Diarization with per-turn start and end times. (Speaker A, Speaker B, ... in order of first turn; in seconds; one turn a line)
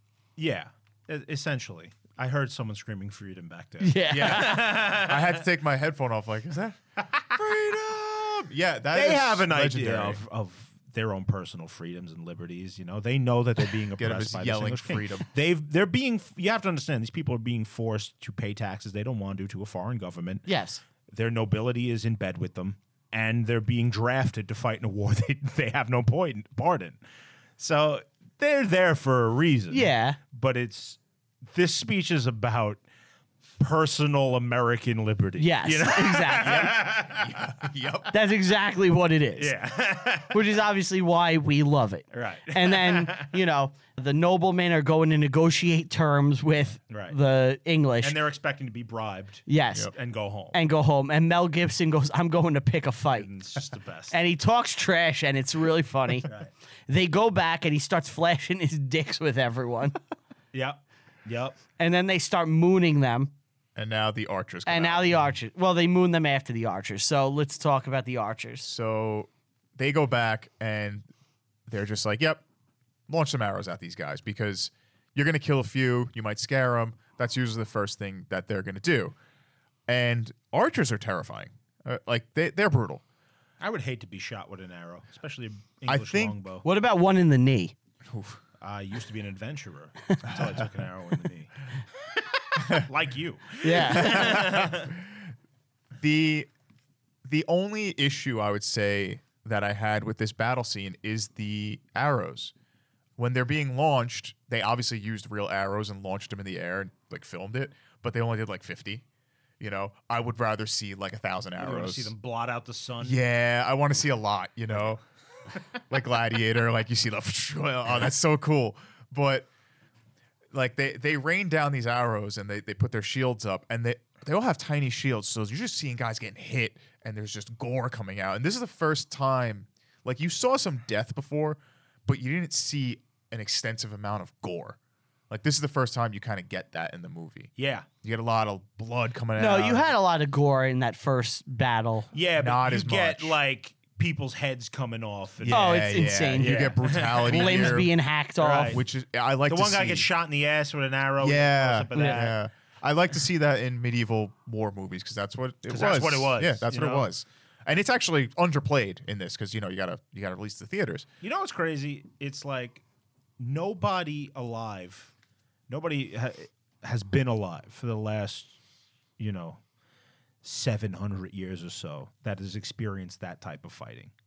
Speaker A: 0.4-5.4
Speaker B: 3.8-4.7
Speaker C: 4.1-10.2
Speaker A: 8.9-20.5
Speaker C: 14.0-15.3
Speaker B: 20.5-20.8
Speaker A: 21.1-27.0
Speaker A: 27.6-32.8
Speaker B: 29.7-30.2
Speaker A: 33.6-37.4
Speaker B: 35.4-36.7
Speaker C: 36.4-38.2
Speaker B: 38.1-39.5
Speaker A: 39.4-40.5
Speaker B: 40.3-48.2
Speaker A: 42.1-43.4
Speaker A: 46.9-47.2
Speaker A: 48.0-50.6
Speaker B: 49.5-49.9
Speaker B: 50.5-53.3
Speaker A: 53.1-54.1
Speaker B: 54.1-56.3
Speaker A: 56.3-56.5
Speaker B: 56.9-60.0
Speaker A: 60.5-61.6
Speaker B: 61.8-63.3
Speaker C: 63.8-65.1
Speaker B: 64.7-68.7
Speaker C: 68.6-71.1
Speaker C: 71.7-72.4
Speaker C: 73.1-79.2
Speaker C: 79.9-83.0
Speaker A: 83.6-86.7
Speaker C: 85.9-86.4
Speaker B: 86.6-87.8
Speaker C: 88.1-88.4
Speaker A: 88.6-91.6
Speaker A: 92.5-95.0
Speaker C: 92.6-92.9
Speaker B: 93.6-94.4
Speaker C: 93.8-94.9
Speaker C: 96.0-96.5
Speaker C: 97.2-102.5
Speaker C: 103.2-109.0
Speaker C: 109.6-112.1
Speaker A: 111.6-113.2
Speaker C: 113.0-115.0
Speaker C: 115.9-119.5
Speaker C: 120.5-134.8
Speaker C: 135.3-137.5
Speaker A: 137.6-137.9
Speaker C: 138.0-139.9
Speaker B: 139.4-142.1
Speaker A: 142.1-147.9
Speaker C: 142.4-143.4
Speaker C: 145.4-147.9
Speaker B: 145.5-148.8
Speaker A: 148.4-148.8
Speaker C: 148.7-150.1
Speaker A: 149.5-152.4
Speaker C: 151.2-161.1
Speaker B: 151.9-152.3
Speaker A: 155.7-157.1
Speaker A: 161.2-162.8
Speaker A: 163.4-165.1
Speaker A: 165.7-168.6
Speaker A: 169.2-169.6
Speaker A: 170.4-174.1